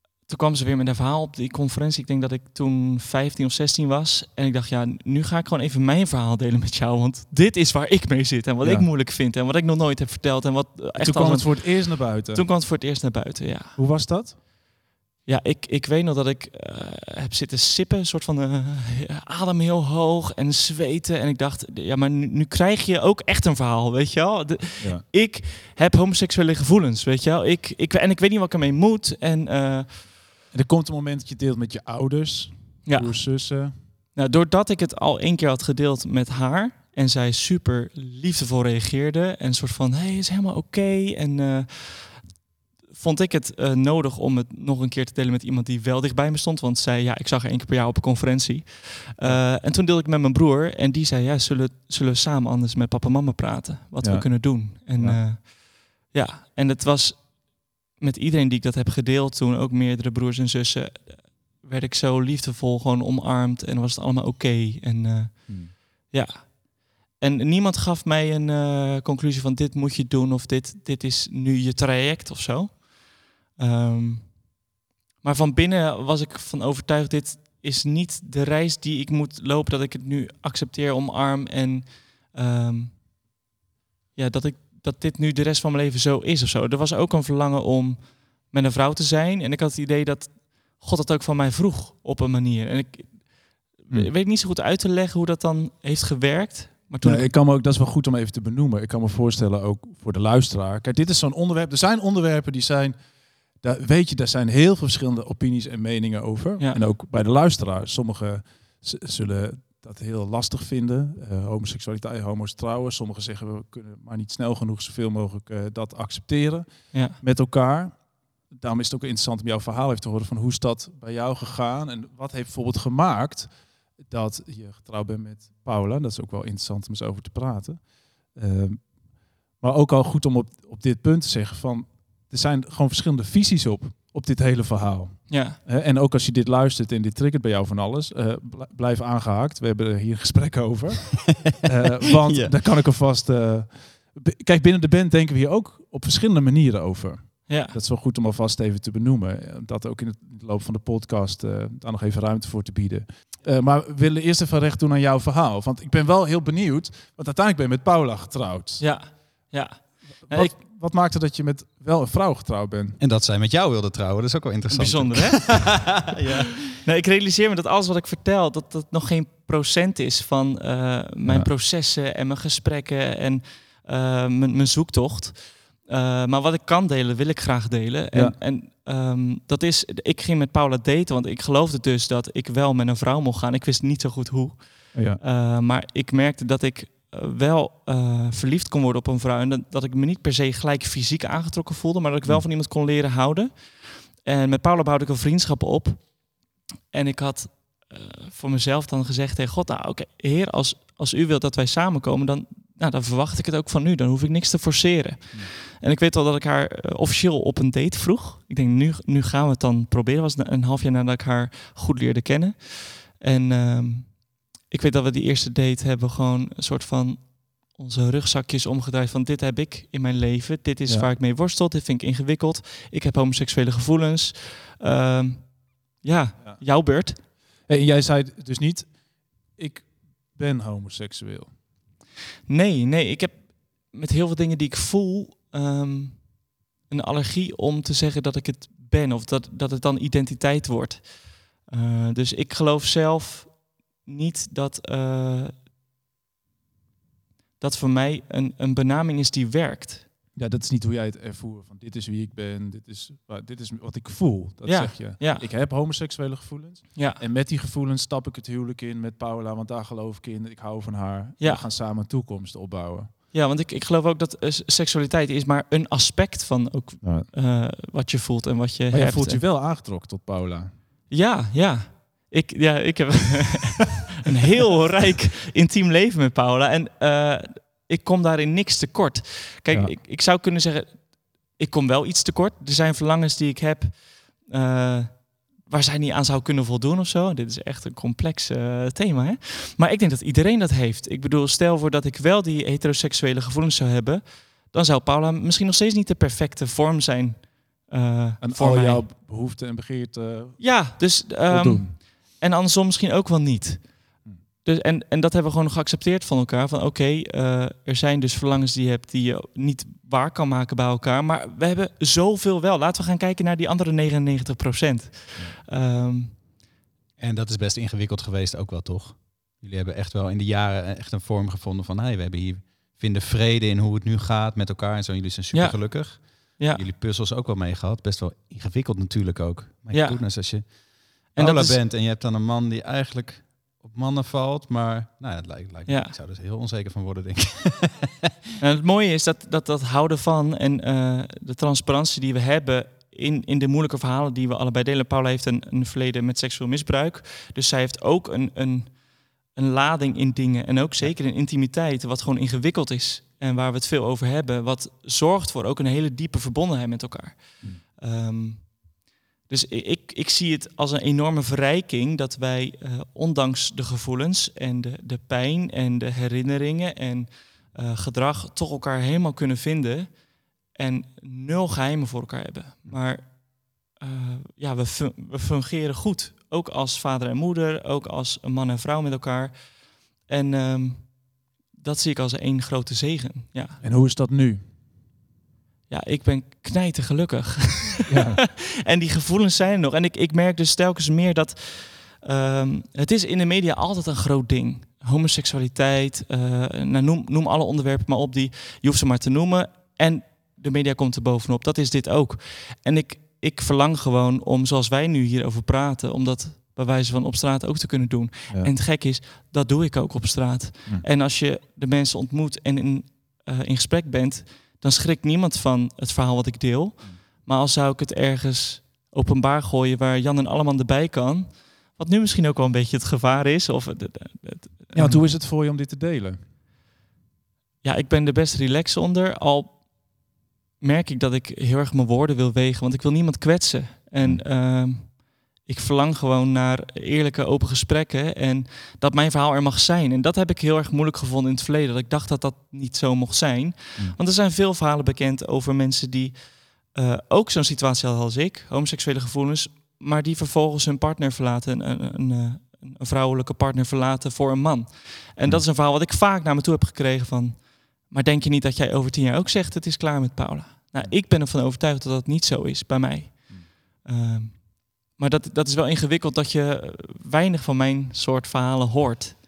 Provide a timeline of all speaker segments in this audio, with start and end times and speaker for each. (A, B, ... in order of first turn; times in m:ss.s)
0:00.3-0:13.8 A
0:08.6-0:08.9 B
0:11.0-0:12.4 B
0:13.8-0:14.4 B
0:15.2-0:30.1 A
0:30.5-0:33.8 B
0:32.8-0:33.6 A
0:34.1-0:42.4 A
0:42.9-1:14.6 A
0:49.2-0:49.5 B
0:54.0-0:55.2 B
1:05.5-1:05.7 B
1:15.2-1:23.0 A
1:24.1-1:37.3 A
1:37.0-2:39.2 B
2:15.3-2:15.6 A
2:22.2-2:22.6 C
2:27.5-2:27.8 A
2:38.8-2:40.6 A
2:40.2-2:43.0 B
2:43.0-2:46.6 C
2:44.7-2:46.1 A
2:46.8-3:47.2 A
2:51.2-2:51.5 B
2:58.1-2:58.4 B
3:04.9-3:05.2 B
3:46.4-3:51.6 B
3:52.5-4:05.5 A
4:07.6-4:10.1 A
4:10.4-4:23.1 B
4:14.6-4:15.5 A
4:23.3-4:29.4 A
4:27.0-4:27.3 B
4:28.9-4:30.8 B
4:31.1-4:59.0 A
4:39.7-4:40.0 B
4:58.4-5:01.9 B
5:00.6-5:16.4 A
5:17.2-5:38.1 C
5:25.5-5:26.8 A
5:29.9-5:30.7 A
5:31.4-5:31.8 A
5:35.9-5:36.1 A
5:38.6-6:23.8 A
6:23.8-6:24.7 B
6:25.9-7:05.3 A
6:28.1-6:28.4 B
7:04.9-7:06.4 B
7:07.8-7:10.3 A
7:10.8-7:49.4 A